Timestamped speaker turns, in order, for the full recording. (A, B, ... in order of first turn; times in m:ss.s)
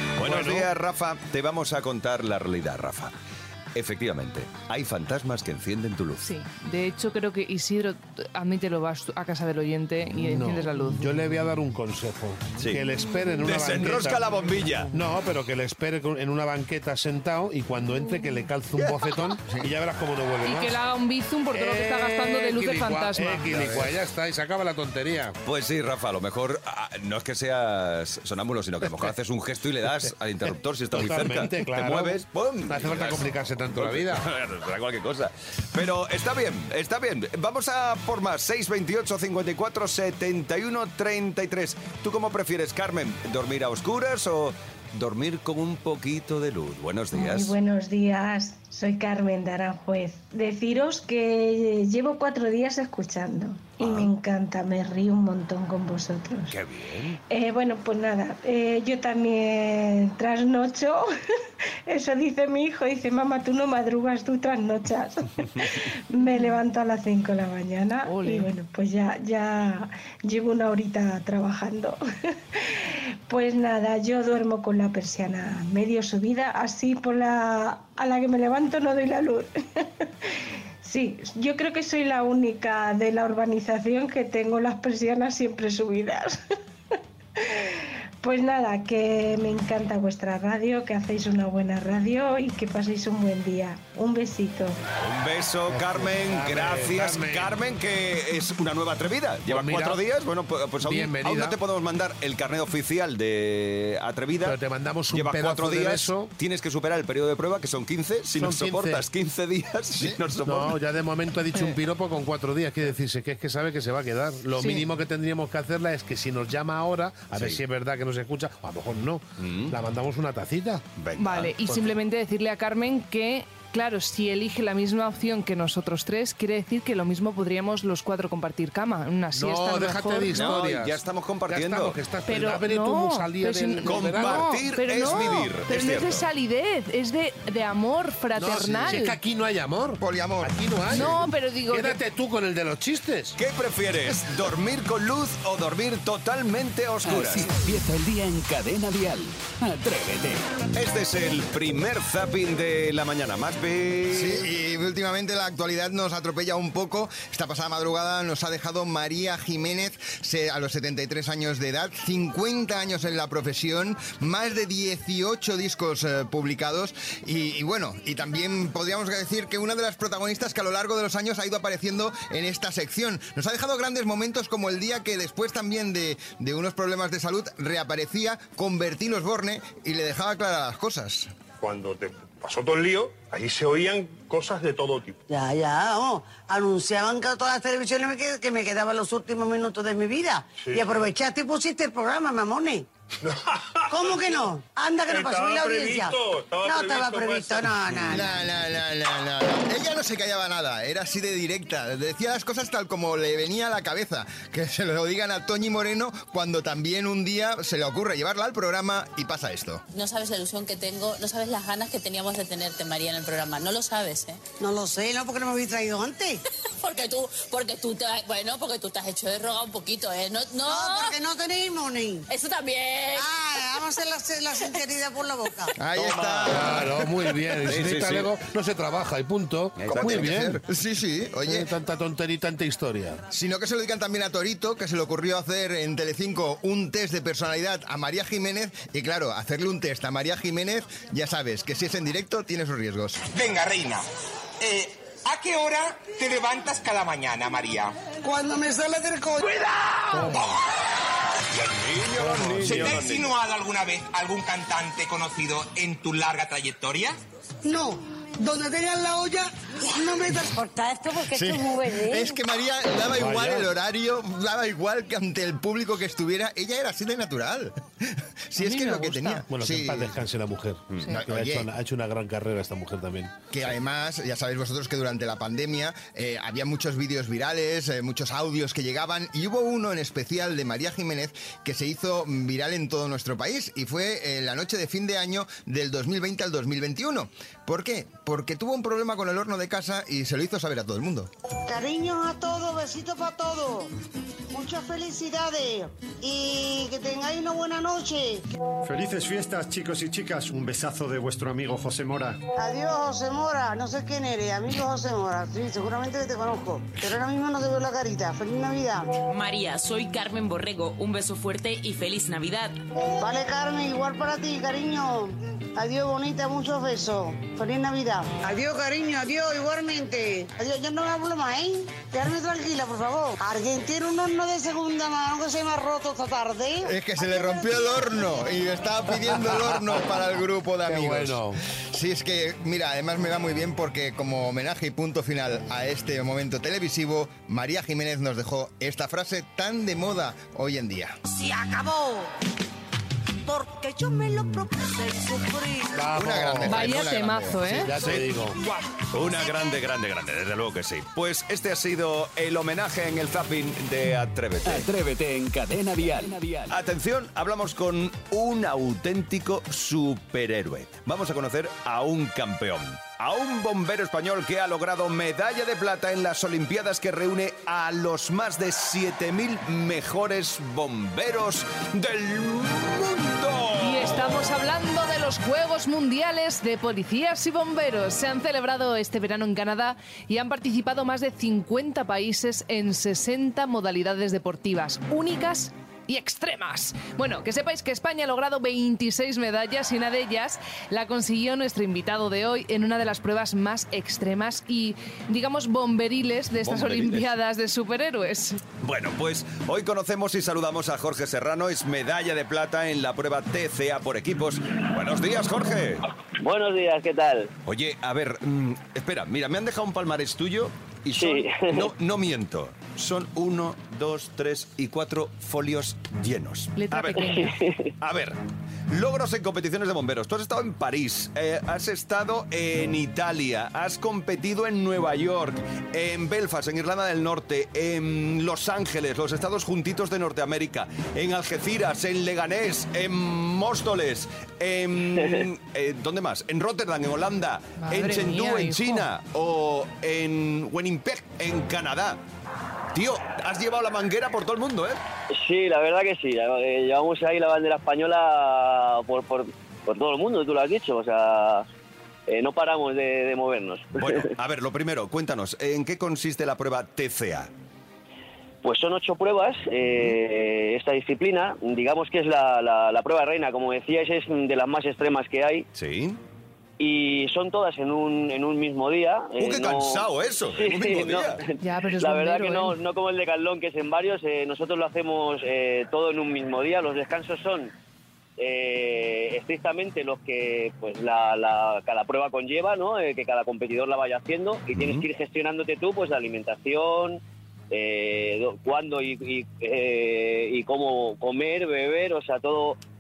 0:00.2-0:03.1 A
0:00.2-0:00.7 B
0:03.8-0:06.3 A
0:06.2-0:11.2 C
0:10.2-0:14.3 B
0:12.6-0:12.9 A
0:13.4-0:14.9 A
0:14.9-0:20.8 B
0:18.8-0:19.2 A
0:20.4-0:23.5 C
0:21.5-0:25.4 B
0:25.4-0:47.6 A
0:30.9-0:34.2 B
0:47.1-0:56.6 D
0:53.8-0:54.1 A
0:56.5-0:57.2 A
0:57.3-1:01.1 D
1:01.9-1:12.0 D
1:06.2-1:06.5 C
1:08.0-1:08.5 C
1:12.5-1:26.4 D
1:27.4-1:34.8 D
1:35.0-1:44.6 A
1:35.7-1:37.6 B
1:39.5-1:40.0 B
1:40.8-1:41.6 B
1:44.4-1:46.3 B
1:45.1-1:50.8 A
1:48.4-1:49.0 B
1:50.4-2:00.8 B
1:51.5-1:51.8 C
1:54.5-1:54.9 C
1:57.3-1:57.6 A
1:59.4-1:59.8 A
2:01.0-2:01.6 A
2:01.2-2:10.6 C
2:09.3-2:14.5 B
2:10.3-2:12.0 A
2:12.3-2:19.2 C
2:13.8-2:16.3 A
2:18.4-2:23.4 B
2:20.0-2:20.8 E
2:20.9-2:22.0 C
2:23.4-2:27.6 A
2:27.1-2:30.4 F
2:30.7-2:34.5 A
2:34.1-3:01.3 E
3:01.6-3:05.2 G
3:05.3-3:12.9 H
3:10.6-3:11.0 G
3:13.2-3:14.5 G
3:13.9-3:18.3 H
3:15.1-3:18.2 G
3:18.1-3:29.8 E
3:29.9-3:34.4 I
3:34.6-3:36.4 H
3:36.8-3:41.2 I
3:40.7-3:42.3 H
3:42.3-3:43.3 I
3:43.2-3:45.7 H
3:45.8-3:47.0 E
3:45.9-3:46.8 A
3:46.5-3:50.6 B
3:47.6-3:48.4 A
3:49.8-3:50.4 A
3:49.9-3:51.7 E
3:51.4-3:53.2 B
3:53.3-4:03.2 E
4:03.3-4:04.0 J
4:04.6-4:08.0 J
4:08.2-4:09.7 H
4:10.1-4:10.5 B
4:11.5-4:13.4 A
4:12.2-4:13.0 B
4:12.7-4:17.2 J
4:17.6-4:21.4 H
4:21.3-4:30.1 E
4:23.1-4:23.7 B
4:28.6-4:29.5 C
4:29.5-4:33.4 B
4:30.9-4:31.2 A
4:31.1-4:31.7 E
4:33.5-4:51.3 E
4:51.7-4:53.9 H
4:54.5-4:58.4 H
4:58.8-5:02.4 K
5:02.6-5:09.2 H
5:09.3-5:12.8 I
5:13.0-5:26.9 H
5:26.8-5:41.2 E
5:29.5-5:29.8 B
5:30.9-5:31.6 B
5:43.5-5:45.7 H
5:45.9-5:47.0 B
5:46.1-5:47.8 E
5:46.6-5:48.0 C
5:47.9-5:48.6 B
5:49.1-5:54.9 A
5:54.7-5:56.7 F
5:56.7-6:14.5 A
6:13.8-6:38.6 C
6:36.6-6:37.3 A
6:38.8-6:46.0 A
6:46.4-6:47.5 L
6:47.6-6:57.4 A
6:51.1-6:51.9 L
6:56.8-6:57.6 C
6:57.2-6:57.9 L
6:58.0-6:58.4 A
6:58.9-7:22.2 A
7:17.8-7:19.1 C
7:22.9-7:25.0 A
7:25.3-7:31.7 L
7:32.3-7:34.3 L
7:34.0-7:37.5 A
7:38.6-7:45.7 L
7:45.8-7:46.2 A
7:46.8-7:57.7 L
7:49.4-7:51.4 A
7:51.6-7:52.8 C
7:58.4-8:07.2 L
8:04.7-8:05.1 A
8:07.7-8:12.8 L